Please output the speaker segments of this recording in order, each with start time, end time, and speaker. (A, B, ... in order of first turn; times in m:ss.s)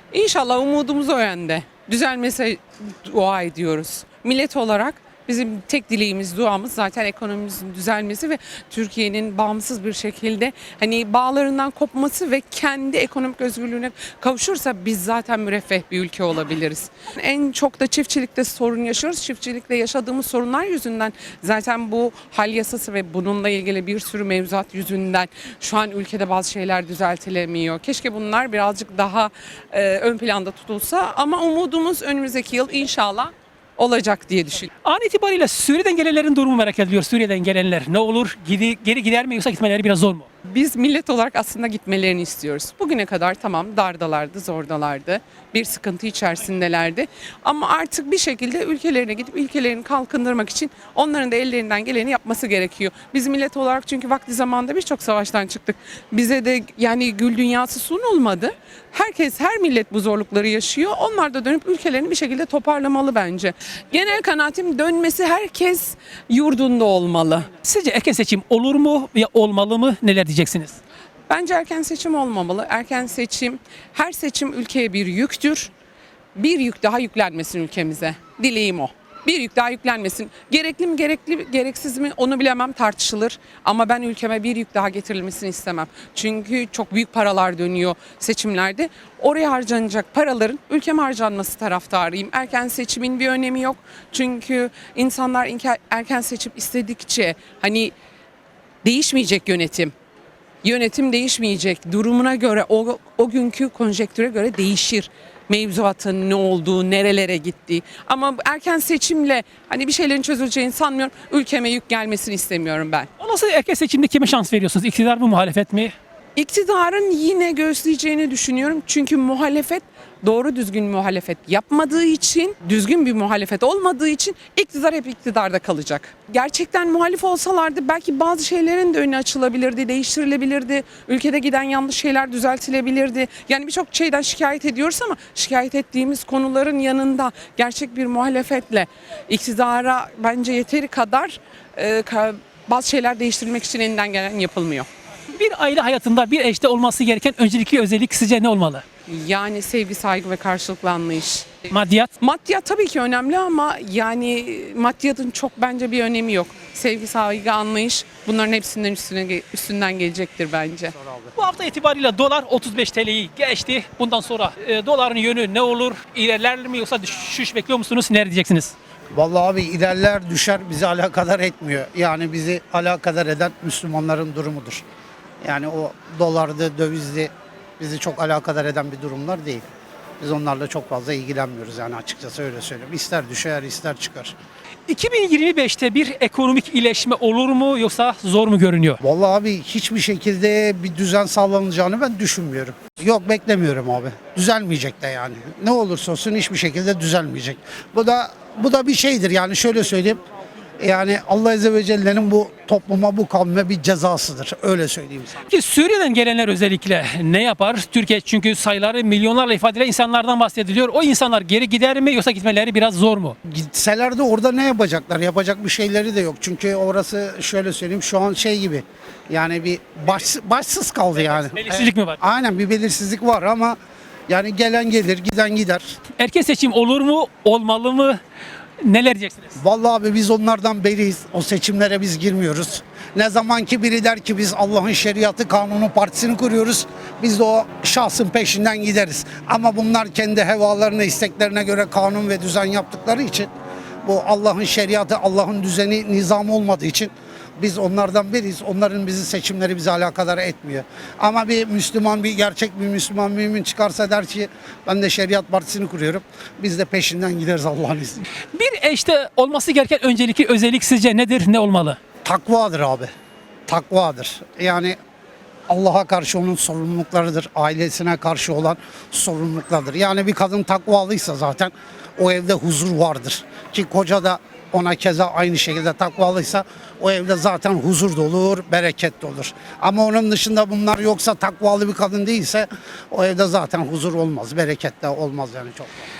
0:00.1-0:34.7 A
0:34.8-0:40.3 B
0:40.4-1:07.5 A
1:07.6-1:10.8 B
1:11.3-1:15.7 A
1:16.4-1:37.9 A
1:38.8-1:39.9 A
1:40.6-1:53.1 A
1:53.2-1:55.9 B
1:56.4-2:24.9 A
2:25.3-2:28.8 B
2:29.1-2:31.6 A
2:31.7-2:32.1 B
2:32.2-2:40.9 A
2:41.0-2:41.3 C
2:41.4-2:48.7 B
2:49.1-2:54.8 C
2:55.4-2:59.6 C
3:00.2-3:04.4 C
3:04.9-3:09.0 B
3:09.0-3:20.2 C
3:20.8-3:25.4 C
3:25.5-3:33.4 B
3:33.4-3:43.8 C
3:41.6-3:42.2 B
3:44.3-3:46.0 C
3:46.2-3:48.2 B
3:48.8-3:49.6 B
3:49.6-4:03.5 C
4:04.0-4:18.2 C
4:18.5-4:22.0 B
4:22.2-4:23.1 C
4:23.7-4:25.0 C
4:25.7-4:45.9 C